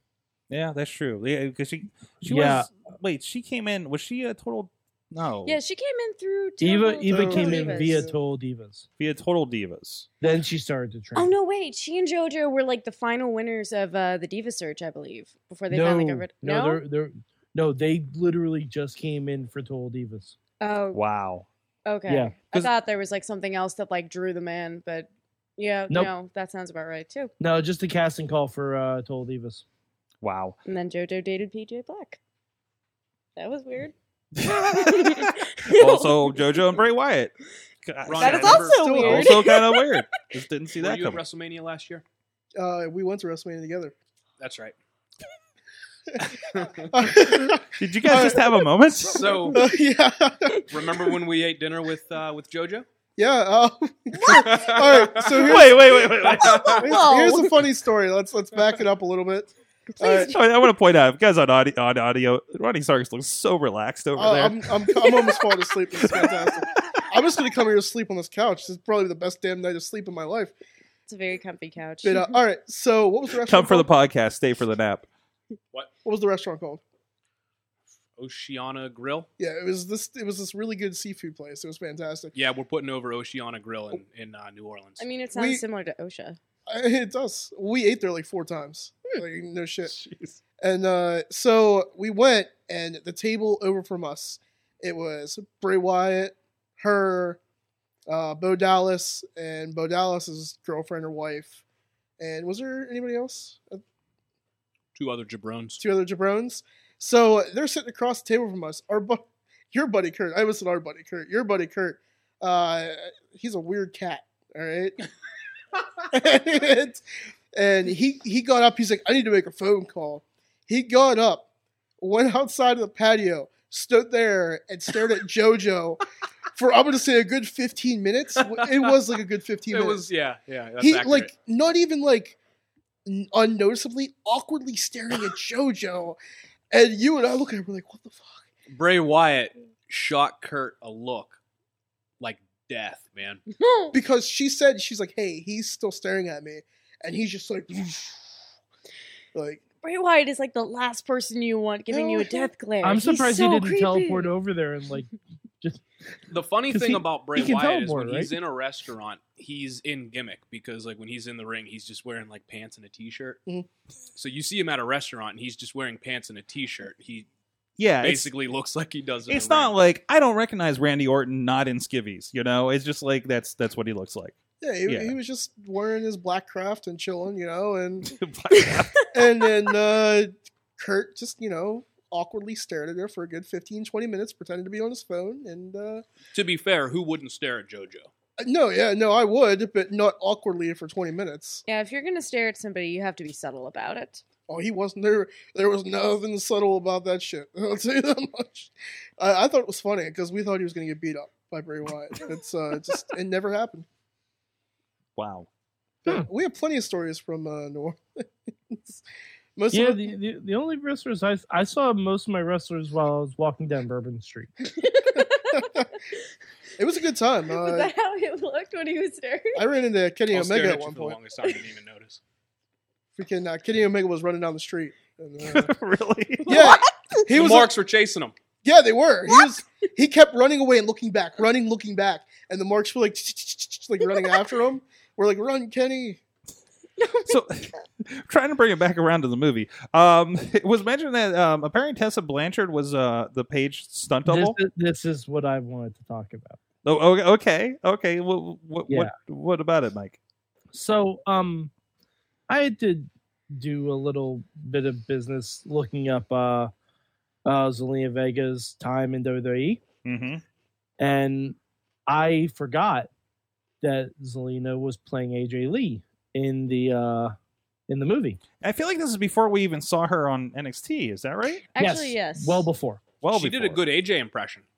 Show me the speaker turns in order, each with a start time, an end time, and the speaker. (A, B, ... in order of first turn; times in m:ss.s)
0:00.5-0:05.6 A
0:02.2-0:02.7 B
0:05.4-0:08.1 C
0:06.6-0:08.8 B
0:07.1-0:08.2 D
0:09.0-0:10.1 A
0:10.2-0:11.3 B
0:11.1-0:16.8 C
0:15.7-0:20.3 B
0:20.6-0:21.0 C
0:20.9-0:21.5 A
0:21.8-0:27.3 C
0:22.1-0:22.3 B
0:27.4-0:29.6 B
0:30.2-0:30.6 A
0:30.7-0:32.2 C
0:33.4-0:33.9 C
0:34.4-0:37.3 A
0:34.5-0:36.4 C
0:37.8-0:41.2 A
0:38.0-0:38.9 E
0:38.2-0:39.9 C
0:38.5-0:39.4 D
0:40.8-0:42.0 E
0:42.6-0:43.9 D
0:44.4-0:44.8 E
0:46.3-0:46.9 E
0:46.9-0:48.4 D
0:47.8-0:49.5 A
0:49.0-0:49.6 E
0:49.5-0:51.2 D
0:50.7-0:52.8 E
0:53.2-1:00.3 D
0:54.2-0:55.4 E
0:55.3-0:56.9 A
0:56.4-0:56.8 E
0:56.4-0:57.6 C
0:59.9-1:00.4 C
1:00.2-1:05.1 A
1:04.2-1:10.5 D
1:06.0-1:06.4 A
1:11.1-1:12.4 C
1:12.0-1:13.9 D
1:13.4-1:15.1 A
1:16.0-1:16.8 D
1:18.2-1:19.3 E
1:19.4-1:22.3 D
1:22.3-1:25.0 E
1:25.0-1:26.4 C
1:25.3-1:25.6 D
1:26.7-1:29.9 D
1:29.9-1:30.3 A
1:30.6-1:37.4 D
1:38.1-1:41.6 D
1:42.2-1:43.8 D
1:44.9-1:45.8 E
1:45.8-1:55.0 D
1:56.1-1:57.0 D
1:57.5-2:01.5 D
2:02.0-2:06.0 D
2:06.5-2:10.1 D
2:08.4-2:08.9 E
2:09.7-2:11.3 E
2:10.8-2:12.4 D
2:13.0-2:16.2 D
2:16.7-2:18.5 D
2:18.7-2:21.4 E
2:22.2-2:23.4 E
2:23.5-2:24.0 C
2:23.9-2:28.3 D
2:29.3-2:29.6 D
2:29.8-2:34.3 C
2:31.9-2:32.5 D
2:32.8-2:35.8 B
2:36.3-2:43.4 E
2:36.7-2:38.3 B
2:44.2-2:47.3 E
2:47.8-2:48.3 A
2:48.0-2:49.7 E
2:49.3-2:55.1 A
2:54.6-2:58.1 D
2:58.0-2:59.0 A
2:59.1-3:06.0 D
3:06.3-3:08.1 E
3:08.4-3:11.6 D
3:11.6-3:14.2 C
3:14.5-3:23.8 D
3:25.2-3:25.5 A
3:26.0-3:28.0 D
3:28.7-3:29.0 D
3:29.6-3:30.1 D
3:29.7-3:34.5 B
3:34.8-3:35.8 C
3:35.1-3:35.9 D
3:36.8-3:37.9 D
3:37.5-3:39.6 C
3:39.6-3:41.2 D
3:40.3-3:42.2 E
3:43.2-3:45.7 D
3:45.4-3:46.8 A
3:46.4-3:46.9 C
3:46.5-3:47.7 D
3:47.3-3:48.3 E
3:48.6-3:56.2 D
3:57.0-3:57.3 C
3:57.2-4:04.6 A
4:04.2-4:06.6 B
4:06.8-4:10.2 A
4:08.9-4:09.1 B
4:10.7-4:11.7 B
4:12.5-4:16.7 B
4:17.4-4:19.8 B
4:20.0-4:20.4 A
4:21.0-4:21.6 B
4:22.1-4:23.1 B
4:23.8-4:27.3 B
4:27.9-4:28.4 B
4:28.6-4:31.6 A
4:31.7-4:32.7 C
4:31.8-4:33.0 B
4:33.2-4:33.8 A
4:33.3-4:34.6 E